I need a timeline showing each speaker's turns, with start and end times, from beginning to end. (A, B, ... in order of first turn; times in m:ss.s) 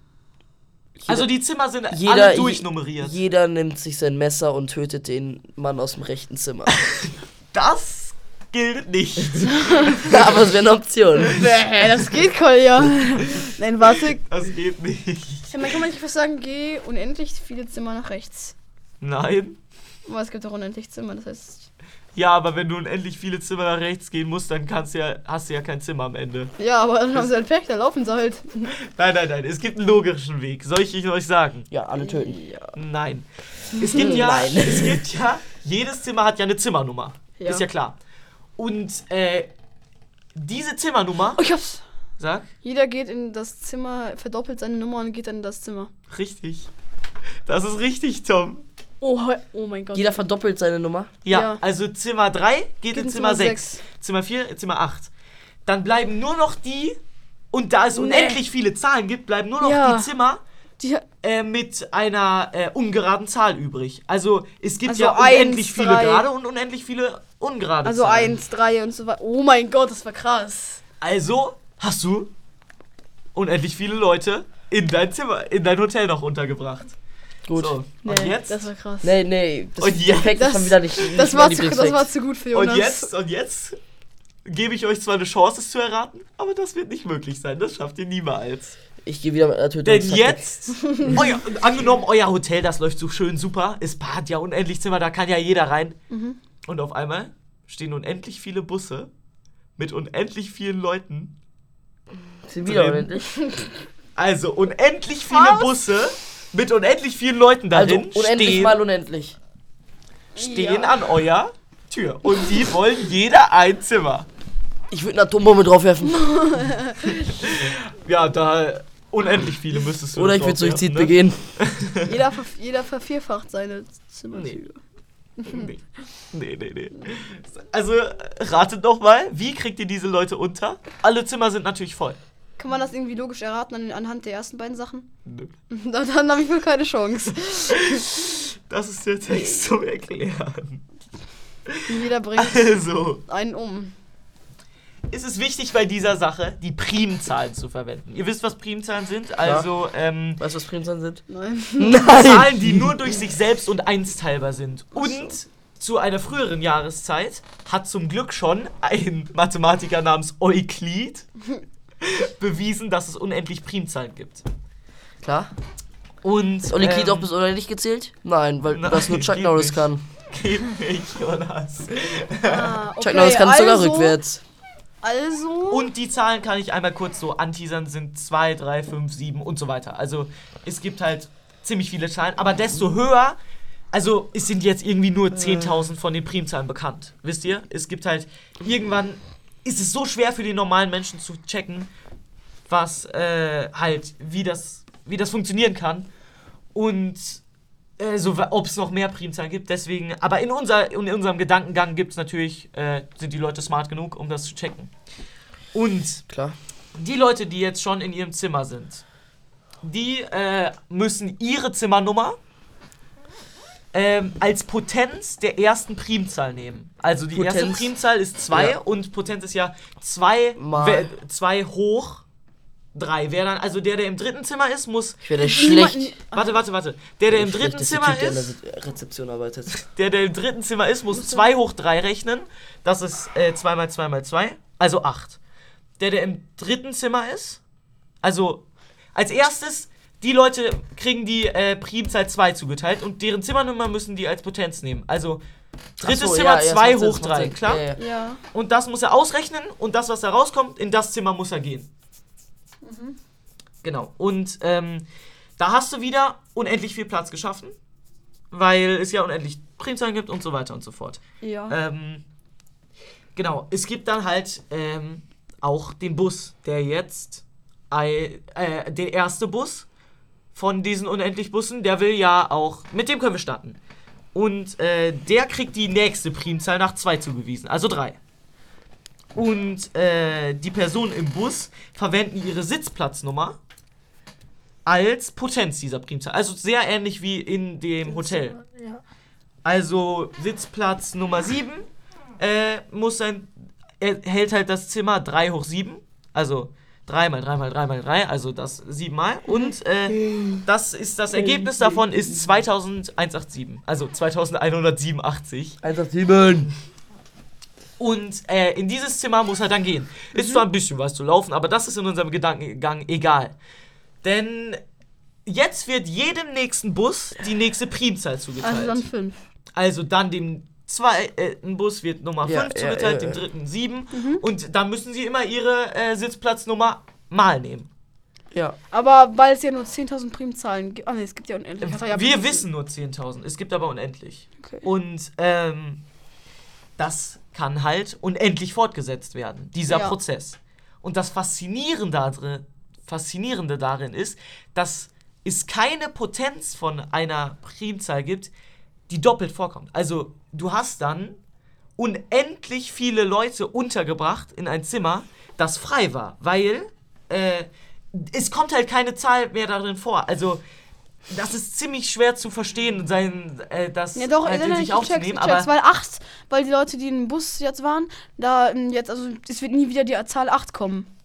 0:01.0-0:01.3 A
0:01.1-0:03.2 B
0:01.9-0:06.7 A
0:06.7-0:10.4 B
0:09.5-0:10.0 C
0:10.0-0:11.5 A
0:11.2-0:14.2 C
0:14.2-0:15.7 B
0:15.5-0:18.5 C
0:19.0-0:19.6 B
0:20.0-0:21.7 C
0:22.1-0:26.5 B
0:26.6-0:28.7 C
0:28.8-0:31.7 B
0:31.7-0:32.4 A
0:32.0-0:32.7 C
0:32.7-0:33.2 B
0:33.8-0:38.0 B
0:33.8-0:35.1 A
0:33.8-0:34.1 C
0:37.4-0:37.6 C
0:38.6-0:39.5 B
0:40.3-0:41.4 B
0:41.4-0:41.8 C
0:42.2-0:42.5 B
0:42.6-0:45.9 C
0:46.1-0:46.7 B
0:47.4-0:48.6 B
0:49.0-0:50.1 C
0:49.9-0:51.1 A
0:51.2-0:55.1 B
0:51.3-0:51.6 C
0:52.9-0:53.8 C
0:55.6-0:57.0 B
0:57.5-1:00.4 B
0:57.9-0:58.4 C
0:59.6-1:00.1 C
1:00.8-1:01.0 C
1:01.2-1:08.4 B
1:04.8-1:06.2 C
1:07.8-1:10.8 C
1:11.0-1:12.3 B
1:13.3-1:16.9 B
1:17.5-1:17.8 A
1:17.5-1:18.7 B
1:18.0-1:19.1 C
1:19.0-1:22.1 A
1:19.8-1:20.4 B
1:20.3-1:23.1 C
1:22.5-1:23.8 B
1:24.4-1:28.8 B
1:29.0-1:30.4 A
1:29.8-1:36.0 B
1:30.8-1:31.2 C
1:36.1-1:36.4 C
1:36.6-1:39.1 B
1:39.8-1:41.3 B
1:42.4-1:43.4 A
1:42.6-1:43.1 B
1:43.3-1:43.7 C
1:44.2-1:48.8 B
1:45.3-1:45.7 C
1:47.7-1:49.4 A
1:50.4-1:51.0 C
1:50.4-1:54.3 B
1:54.9-1:56.4 A
1:56.0-1:57.3 C
1:57.1-2:02.1 B
2:00.1-2:01.4 A
2:02.0-2:04.8 C
2:05.4-2:05.7 C
2:05.4-2:12.2 B
2:12.6-2:15.1 C
2:15.2-2:15.5 B
2:15.7-2:18.0 C
2:17.7-2:20.8 B
2:19.3-2:19.7 C
2:21.7-2:23.2 B
2:21.9-2:23.9 C
2:25.1-2:30.4 B
2:29.4-2:29.7 A
2:30.4-2:31.2 A
2:31.3-2:32.1 C
2:31.8-2:32.9 A
2:32.1-2:41.3 B
2:34.9-2:35.3 C
2:42.0-2:44.4 B
2:45.2-2:45.5 A
2:46.2-2:47.3 B
2:46.7-2:50.0 A
2:48.7-2:52.8 B
2:52.4-2:54.2 C
2:53.0-2:54.4 A
2:55.0-2:55.9 C
2:55.7-3:03.4 B
3:03.9-3:11.9 B
3:12.7-3:16.1 B
3:16.7-3:17.4 B
3:18.0-3:24.9 B
3:25.7-3:26.2 B
3:26.3-3:26.6 A
3:27.0-3:29.0 B
3:29.8-3:32.4 B
3:33.9-3:42.2 B
3:37.3-3:37.9 A
3:38.5-3:38.8 A
3:40.6-3:41.1 A
3:42.9-3:45.2 B
3:45.2-3:46.1 A
3:45.4-3:46.6 C
3:46.3-3:48.5 B
3:47.3-3:49.8 A
3:49.9-3:55.4 B
3:51.1-3:51.4 C
3:56.0-3:57.6 B
3:58.2-3:58.6 B
3:59.1-4:05.4 B
4:06.0-4:08.0 A
4:06.0-4:07.9 B
4:08.0-4:08.4 C
4:08.5-4:11.9 B
4:12.8-4:13.2 C
4:13.8-4:15.0 B
4:15.6-4:17.7 B
4:18.5-4:22.2 B
4:21.4-4:21.8 C
4:23.4-4:29.8 B
4:30.5-4:33.8 B
4:34.3-4:38.2 B
4:39.3-4:43.6 B
4:44.8-4:48.6 B
4:49.6-4:51.8 B
4:52.4-5:05.8 B
5:00.1-5:00.6 A
5:01.3-5:02.3 A
5:05.8-5:06.7 A
5:08.0-5:13.5 B
5:10.3-5:10.6 C
5:14.2-5:14.8 B
5:15.4-5:19.0 B
5:18.6-5:19.4 C
5:19.8-5:27.9 B
5:22.4-5:23.4 A
5:24.1-5:24.4 C
5:28.9-5:32.6 C
5:31.8-5:36.0 B
5:37.0-5:48.5 B
5:39.9-5:40.2 C
5:49.1-5:51.4 B
5:52.0-6:00.6 B
6:01.3-6:05.7 B
6:04.1-6:11.1 C